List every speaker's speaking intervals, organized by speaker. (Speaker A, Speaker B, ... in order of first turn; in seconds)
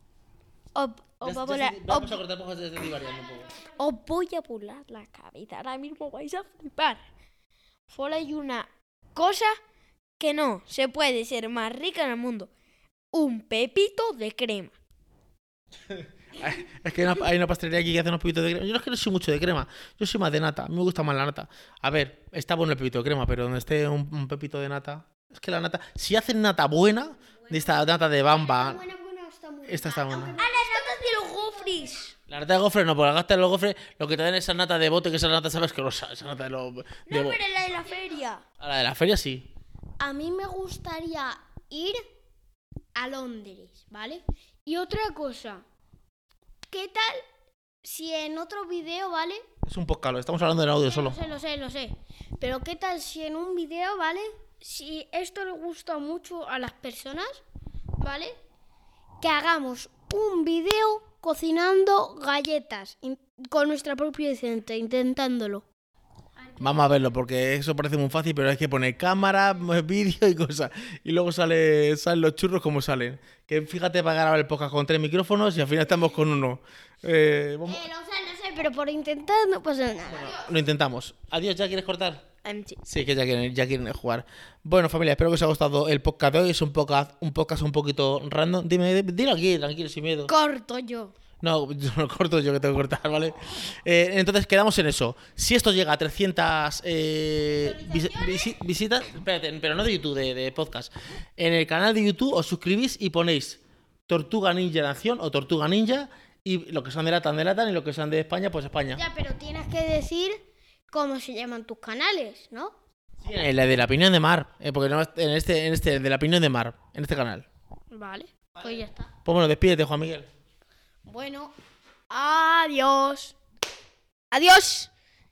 Speaker A: 0.7-2.2, 3.6-7.0, 7.9-9.6, 10.2-12.5, 13.1-14.7, 30.3-32.1, 37.1-38.4, 82.4-82.8, 90.3-91.1, 97.5-98.5, 124.3-124.9
Speaker B: 1.2-3.6, 15.9-28.8, 29.7-30.4, 32.3-37.4, 38.6-39.5, 49.6-51.2, 66.6-77.8, 80.1-82.3, 82.8-90.3, 91.4-109.0, 113.2-117.5, 119.2-120.3
Speaker C: 27.5-32.1, 40.0-42.0, 43.0-45.6, 46.7-47.3, 47.8-49.4, 50.9-57.4, 58.0-58.4, 59.2-65.7, 66.4-67.0, 77.7-80.4, 108.9-110.4, 110.9-112.8, 117.9-119.1, 121.0-121.5, 122.1-123.3